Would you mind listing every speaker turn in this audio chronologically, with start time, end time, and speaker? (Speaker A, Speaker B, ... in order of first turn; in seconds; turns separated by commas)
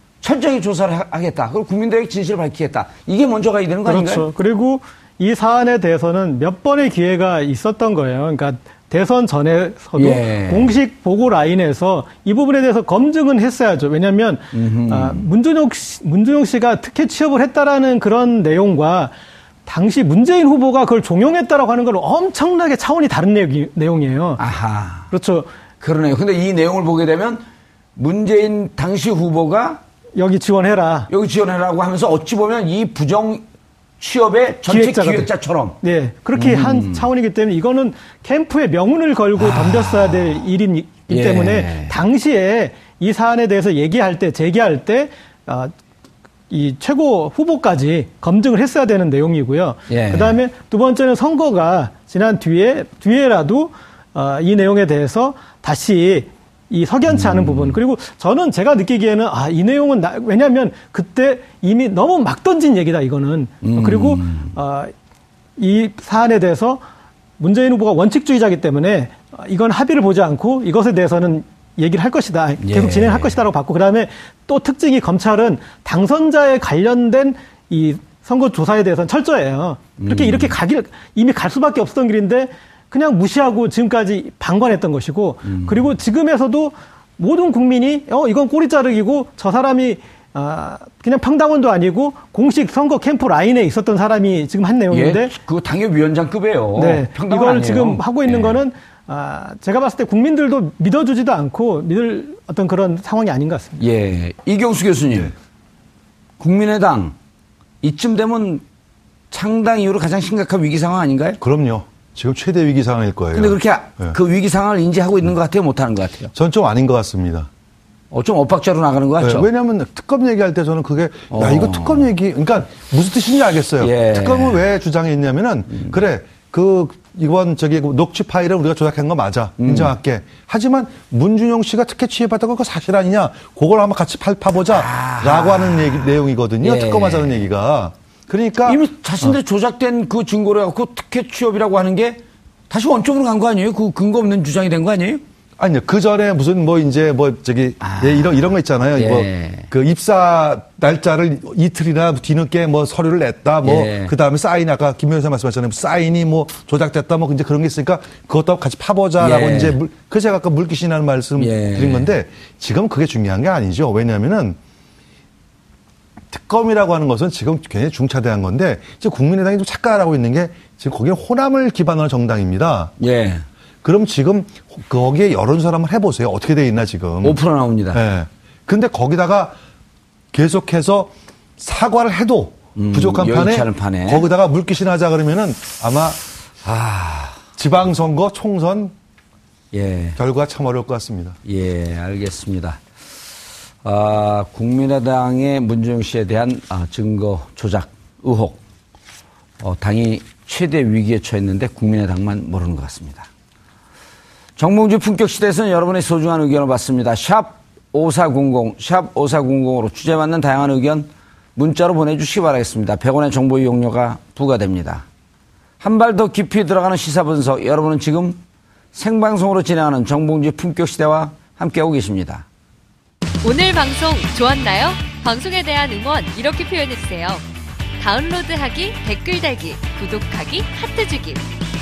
Speaker A: 0.2-4.3, Speaker B: 3.9-19.1, Speaker A: 10.0-10.7, Speaker A: 14.5-15.3, Speaker B: 19.6-24.4, Speaker A: 24.4-25.1, Speaker B: 25.1-25.5, Speaker A: 25.8-29.8, Speaker B: 30.2-31.1, Speaker A: 31.1-33.5, Speaker A: 34.0-35.8, Speaker B: 34.7-35.3, Speaker B: 35.8-45.7, Speaker A: 36.3-37.1, Speaker A: 39.4-40.5, Speaker A: 41.1-42.0, Speaker B: 46.5-64.9, Speaker A: 49.9-50.4, Speaker A: 57.1-57.8, Speaker A: 63.6-64.6, Speaker B: 65.6-66.8, Speaker B: 67.4-95.3, Speaker A: 72.6-73.5, Speaker A: 80.0-80.6, Speaker A: 85.4-86.0, Speaker A: 94.9-98.6, Speaker B: 96.8-103.8, Speaker A: 103.8-105.3, Speaker A: 106.4-107.2, Speaker A: 107.8-108.6, Speaker A: 109.3-111.4, Speaker C: 111.4-114.2, Speaker A: 113.3-116.3, Speaker C: 116.3-117.5, Speaker A: 118.1-119.5, Speaker C: 119.2-139.4, Speaker A: 121.3-122.1, Speaker A: 123.8-124.6, Speaker A: 125.7-126.0, Speaker A: 129.6-129.9, Speaker A: 134.7-137.4, Speaker A: 138.7-145.2, Speaker C: 145.6-164.6, Speaker A: 147.8-148.4, Speaker A: 148.9-149.7, Speaker A: 153.6-154.1, Speaker A: 159.2-159.8, Speaker A: 161.4-162.1, Speaker C: 166.3-172.9, Speaker A: 173.0-173.5, Speaker C: 173.8-177.4, Speaker A: 177.2-178.0, Speaker C: 177.9-179.6, Speaker C: 180.3-186.2, Speaker A: 182.8-184.2, Speaker A: 186.6-187.4, Speaker C: 187.6-188.9, Speaker A: 189.7-190.2, Speaker C: 190.2-191.4, Speaker A: 191.4-192.8, Speaker A: 193.8-198.6, Speaker A: 199.6-203.3, Speaker A: 204.6-215.1, Speaker A: 215.8-218.4, Speaker A: 218.9-222.4, Speaker D: 223.4-227.4, Speaker D: 228.0-231.4